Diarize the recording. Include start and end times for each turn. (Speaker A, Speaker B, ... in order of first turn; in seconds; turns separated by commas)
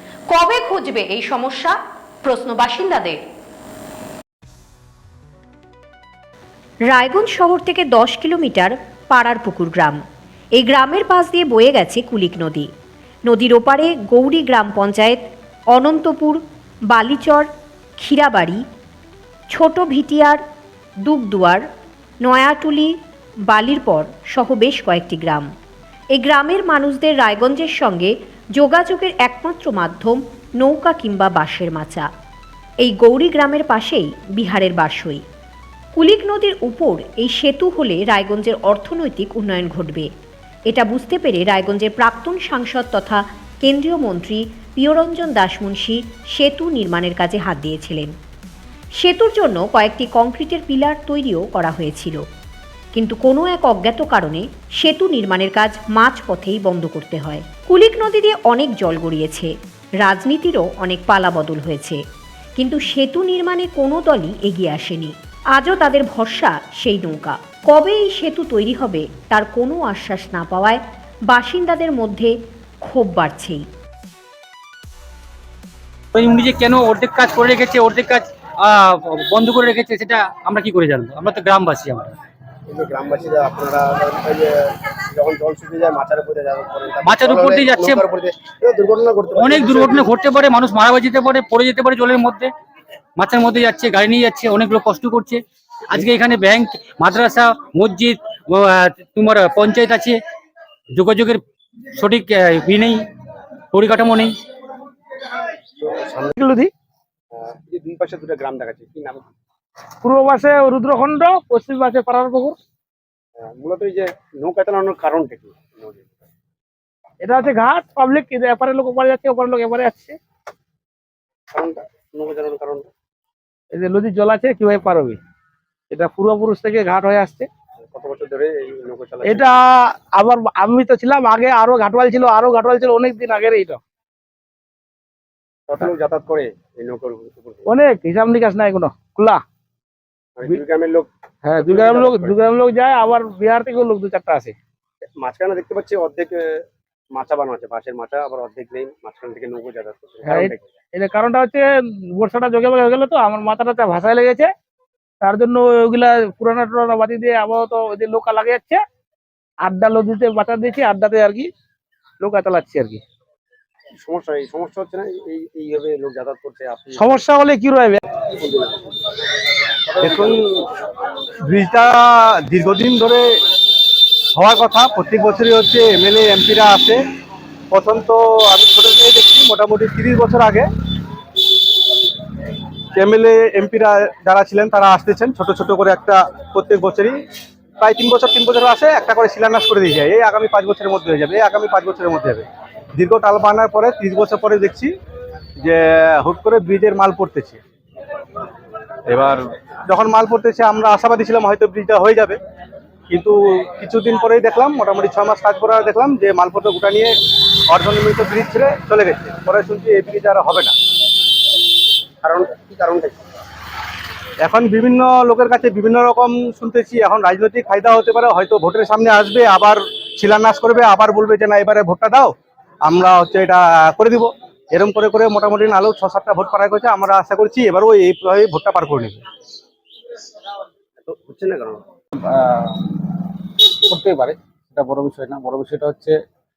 Speaker A: 0.3-3.2, Speaker A: 6.9-10.0, Speaker A: 10.6-12.7, Speaker A: 13.2-17.5, Speaker A: 18.0-18.6, Speaker A: 19.5-20.4, Speaker A: 21.0-21.6, Speaker A: 22.2-22.9, Speaker A: 23.5-25.5, Speaker A: 26.1-32.1, Speaker A: 32.8-35.2, Speaker A: 36.0-40.1, Speaker A: 40.7-48.1, Speaker A: 49.0-52.2, Speaker A: 52.9-62.0, Speaker A: 62.6-73.6, Speaker B: 76.1-82.1, Speaker C: 82.7-90.1, Speaker B: 87.0-88.0, Speaker B: 89.3-92.5, Speaker B: 93.2-100.2, Speaker B: 100.9-101.4, Speaker B: 102.0-103.1, Speaker B: 103.7-104.4, Speaker C: 105.8-106.3, Speaker D: 106.3-106.7, Speaker C: 107.3-109.3, Speaker D: 110.0-112.6, Speaker C: 113.4-116.3, Speaker D: 117.2-120.2, Speaker C: 121.5-122.9, Speaker D: 123.7-125.2, Speaker D: 125.9-127.5, Speaker C: 127.9-129.6, Speaker D: 129.2-133.8, Speaker C: 135.7-137.7, Speaker D: 137.7-139.4, Speaker C: 140.4-142.4, Speaker D: 141.5-144.5, Speaker C: 145.2-146.6, Speaker C: 147.1-150.7, Speaker D: 150.2-154.5, Speaker D: 155.2-158.8, Speaker D: 159.6-161.5, Speaker D: 162.2-163.0, Speaker C: 164.0-167.2, Speaker D: 167.0-168.0, Speaker C: 168.3-168.8, Speaker C: 169.8-170.5, Speaker E: 170.0-170.6, Speaker E: 171.4-173.3, Speaker E: 174.4-177.0, Speaker E: 177.7-180.7, Speaker E: 182.9-187.2, Speaker E: 187.8-194.9, Speaker E: 195.6-197.6, Speaker E: 199.1-202.4, Speaker E: 203.1-207.1, Speaker E: 207.7-210.7, Speaker C: 212.2-213.2, Speaker E: 214.4-222.3, Speaker E: 222.8-229.2, Speaker C: 231.0-231.8, Speaker F: 232.2-236.2